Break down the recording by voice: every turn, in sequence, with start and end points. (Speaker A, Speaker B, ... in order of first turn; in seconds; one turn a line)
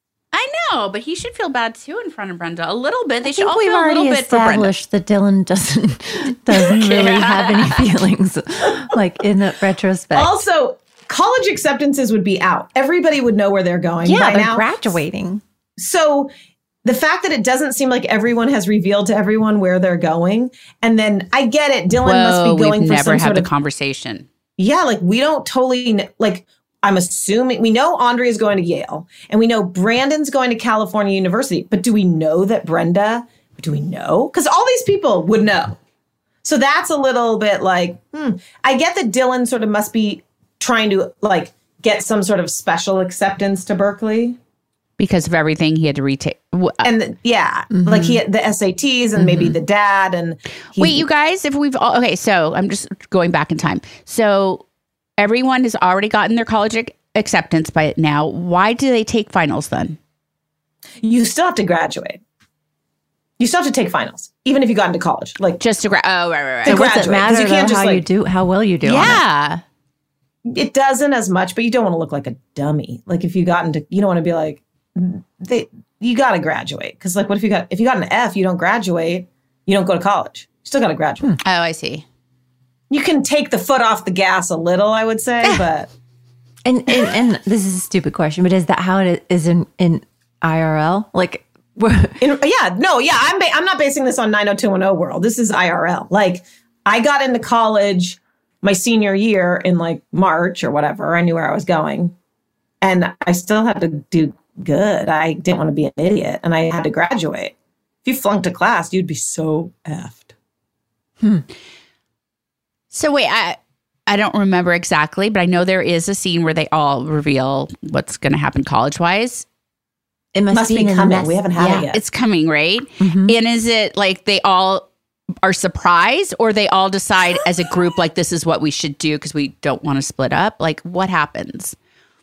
Speaker A: 0.3-4.8
Speaker B: 3.2-10.4
Speaker A: 6.7-7.9
Speaker C: 10.1-15.0
Speaker B: 14.0-15.4
Speaker C: 15.8-16.3
Speaker C: 16.9-23.5
Speaker A: 22.0-24.3
Speaker C: 24.6-35.8
Speaker C: 36.4-44.4
Speaker A: 45.0-46.9
Speaker C: 46.8-51.1
Speaker B: 47.7-48.2
Speaker B: 49.2-49.5
Speaker A: 50.8-54.6
Speaker A: 55.2-60.0
Speaker C: 61.0-62.2
Speaker C: 63.4-65.6
Speaker A: 65.6-66.9
Speaker C: 66.6-68.1
Speaker B: 66.7-69.2
Speaker A: 68.8-69.6
Speaker C: 70.5-81.2
Speaker A: 81.4-82.1
Speaker C: 82.9-85.9
Speaker B: 86.7-92.2
Speaker C: 92.2-102.1
Speaker C: 102.8-107.5
Speaker C: 108.0-110.3
Speaker B: 111.2-111.5
Speaker A: 112.9-119.5
Speaker B: 120.3-121.8
Speaker C: 120.5-122.0
Speaker A: 121.6-124.9
Speaker B: 123.0-123.4
Speaker A: 125.4-131.8